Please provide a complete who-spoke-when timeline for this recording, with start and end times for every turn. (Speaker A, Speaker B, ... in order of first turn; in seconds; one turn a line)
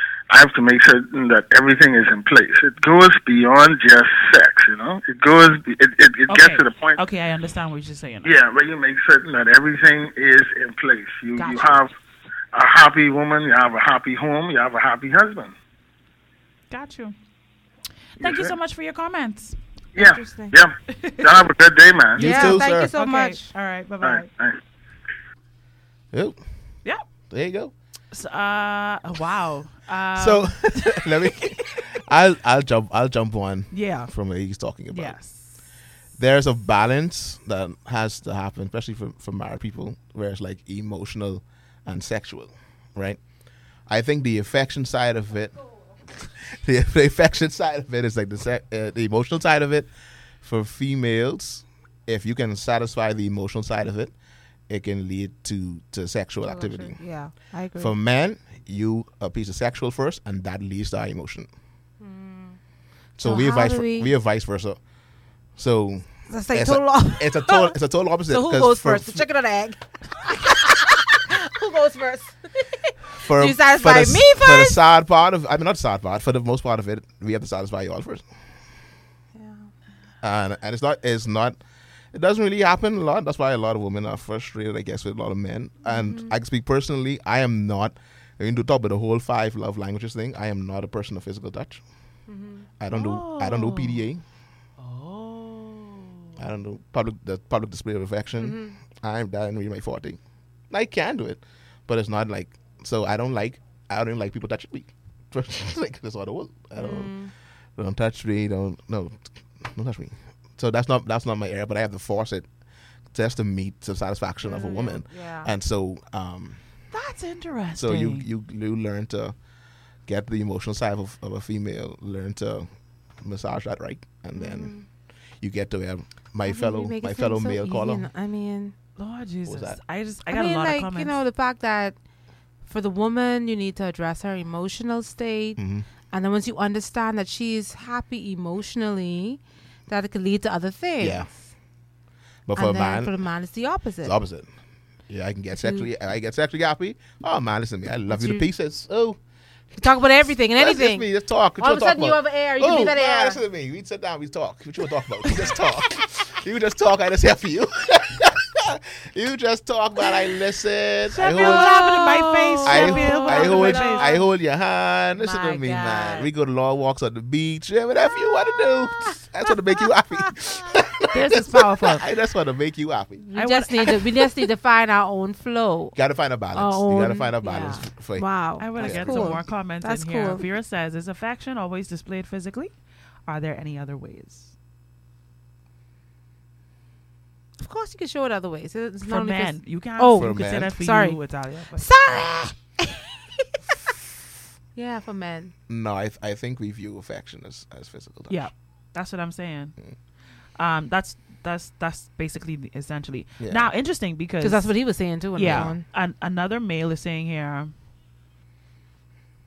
Speaker A: 0.3-7.0
Speaker B: 6.3-8.3
Speaker A: 8.2-11.9
Speaker B: 11.4-11.9
Speaker A: 12.5-15.5
Speaker B: 16.7-17.1
Speaker B: 18.2-19.6
Speaker A: 18.2-18.5
Speaker C: 19.9-20.6
Speaker A: 19.9-22.3
Speaker B: 20.9-21.4
Speaker D: 22.2-22.9
Speaker C: 22.2-23.5
Speaker B: 22.2-24.3
Speaker A: 24.0-24.6
Speaker D: 26.1-26.4
Speaker D: 27.3-27.7
Speaker B: 28.1-31.8
Speaker D: 30.1-35.2
Speaker B: 33.7-34.1
Speaker B: 34.9-35.6
Speaker D: 36.2-43.2
Speaker D: 43.9-45.6
Speaker D: 46.2-49.9
Speaker D: 50.4-54.1
Speaker D: 54.7-57.0
Speaker C: 56.4-57.9
Speaker D: 57.8-61.5
Speaker C: 62.0-62.6
Speaker D: 63.2-64.8
Speaker C: 63.2-64.1
Speaker D: 65.6-69.2
Speaker C: 66.3-67.8
Speaker C: 68.3-74.8
Speaker D: 73.2-78.3
Speaker C: 79.3-79.7
Speaker D: 80.2-81.6
Speaker D: 82.1-91.8
Speaker C: 85.9-86.3
Speaker C: 92.3-92.7
Speaker D: 92.8-94.2
Speaker B: 92.9-94.0
Speaker B: 94.8-96.4
Speaker D: 96.4-100.2
Speaker C: 98.4-98.8
Speaker D: 100.7-107.1
Speaker C: 106.8-107.3
Speaker D: 107.8-112.5
Speaker D: 113.1-116.6
Speaker C: 114.4-115.5
Speaker B: 116.9-118.3
Speaker D: 117.8-119.4
Speaker D: 120.0-124.8
Speaker C: 124.3-124.8
Speaker D: 125.4-128.1
Speaker C: 126.4-128.7
Speaker B: 129.0-131.2
Speaker D: 129.4-129.8
Speaker C: 130.3-131.9
Speaker C: 132.7-135.6
Speaker D: 135.6-135.9
Speaker C: 136.1-141.4
Speaker D: 141.0-141.3
Speaker D: 142.5-143.2
Speaker C: 142.5-144.2
Speaker D: 144.0-144.5
Speaker D: 145.1-149.2
Speaker C: 145.5-145.9
Speaker C: 148.1-148.4
Speaker C: 149.8-151.1
Speaker D: 150.6-161.7
Speaker C: 151.6-153.4
Speaker B: 161.1-164.1
Speaker C: 161.2-164.3
Speaker D: 162.6-173.2
Speaker C: 165.2-166.3
Speaker B: 171.1-172.1
Speaker C: 173.2-175.9
Speaker B: 173.3-174.0
Speaker D: 175.9-179.4
Speaker C: 176.5-180.4
Speaker B: 178.6-182.7
Speaker B: 183.2-184.5
Speaker C: 187.6-191.2
Speaker B: 189.1-191.9
Speaker D: 190.2-190.7
Speaker C: 191.8-193.1
Speaker C: 194.7-195.5
Speaker D: 195.7-198.5
Speaker B: 198.3-199.7
Speaker B: 200.6-204.8
Speaker D: 203.4-203.7
Speaker C: 204.4-205.8
Speaker B: 205.3-207.7
Speaker D: 205.4-205.7